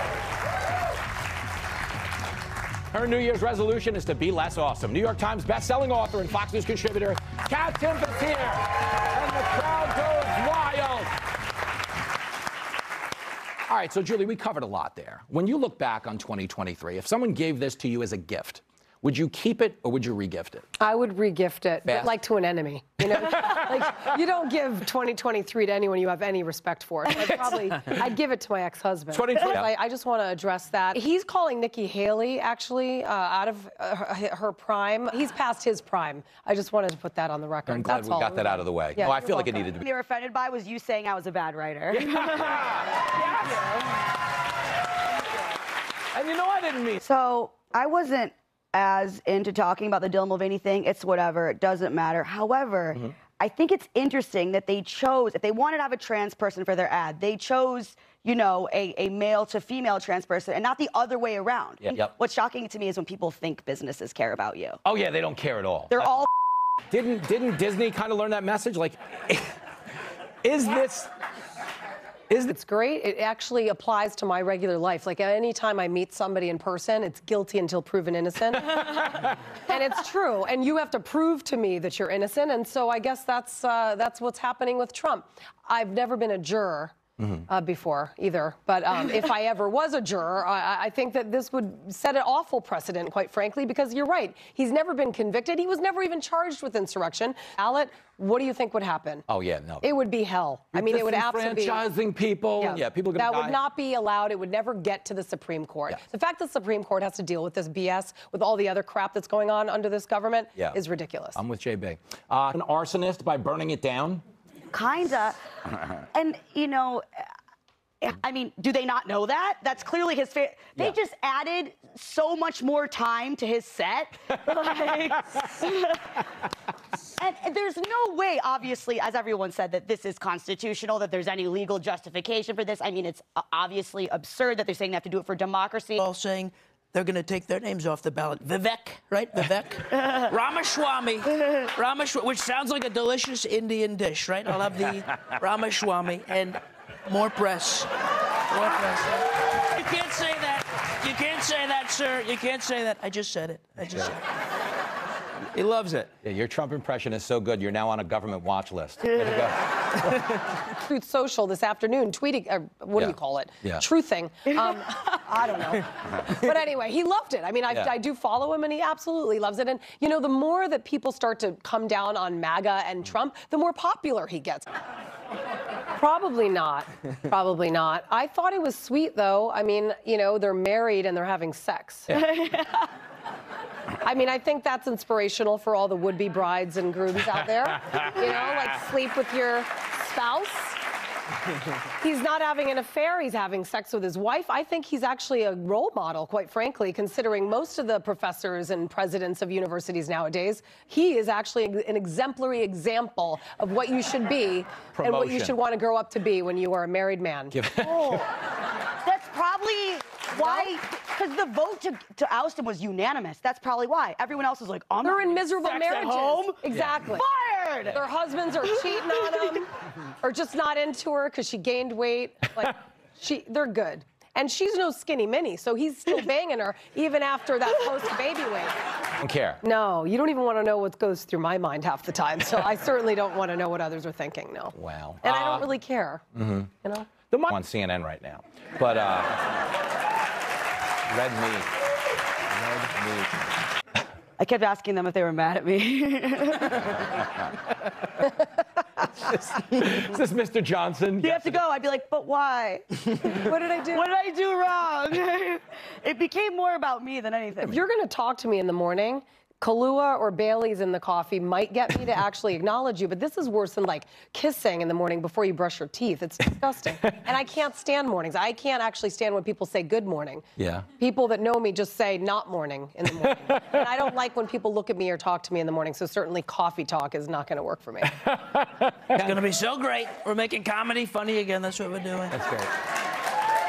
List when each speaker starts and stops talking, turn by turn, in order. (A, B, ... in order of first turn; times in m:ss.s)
0:02.9-0:11.1 A
0:13.7-0:20.6 A
0:20.8-0:39.7 B
0:21.9-0:22.1 A
0:29.1-0:29.7 A
0:37.7-0:39.8 A
0:39.8-0:42.6 C
0:41.9-0:43.7 A
0:46.1-0:47.0 A
0:47.0-1:04.8 C
1:01.8-1:02.1 A
1:04.8-1:06.1 A
1:05.9-1:06.3 C
1:06.9-1:09.6 A
1:10.4-1:11.1 A
1:12.4-1:27.0 B
1:27.5-1:39.3 B
1:39.3-1:39.9 A
1:39.8-1:41.8 B
1:40.7-1:43.6 A
1:43.2-1:51.4 B
1:51.4-1:54.2 A
1:54.7-1:55.4 C
1:56.1-1:57.2 C
1:58.0-2:06.2 C
2:07.2-2:16.0 C
2:16.0-2:27.9 D
2:28.5-2:34.3 D
2:35.5-2:36.1 D
2:36.2-2:39.6 A
2:40.7-2:54.7 B
2:43.0-2:43.8 A
2:56.0-3:02.2 B
3:02.1-3:02.9 C
3:04.0-3:10.8 B
3:12.0-3:27.6 B
3:25.0-3:25.6 A
3:27.5-3:28.2 A
3:27.8-3:28.3 C
3:29.0-3:38.0 C
3:30.4-3:30.7 B
3:35.0-3:37.3 B
3:37.9-3:48.8 B
3:49.2-3:49.6 A
3:49.6-3:56.2 B
3:54.8-3:55.7 A
3:56.4-3:56.7 A
3:56.8-3:57.1 B
3:57.3-3:59.4 A
4:01.1-4:01.7 A
4:02.6-4:03.3 A
4:04.4-4:07.1 C
4:09.3-4:11.6 A
4:11.2-4:17.8 C
4:13.4-4:14.1 B
4:17.6-4:30.5 B
4:30.6-4:30.9 A
4:31.0-4:38.2 B
4:38.2-4:39.4 A
4:39.1-4:42.3 D
4:42.3-4:42.7 A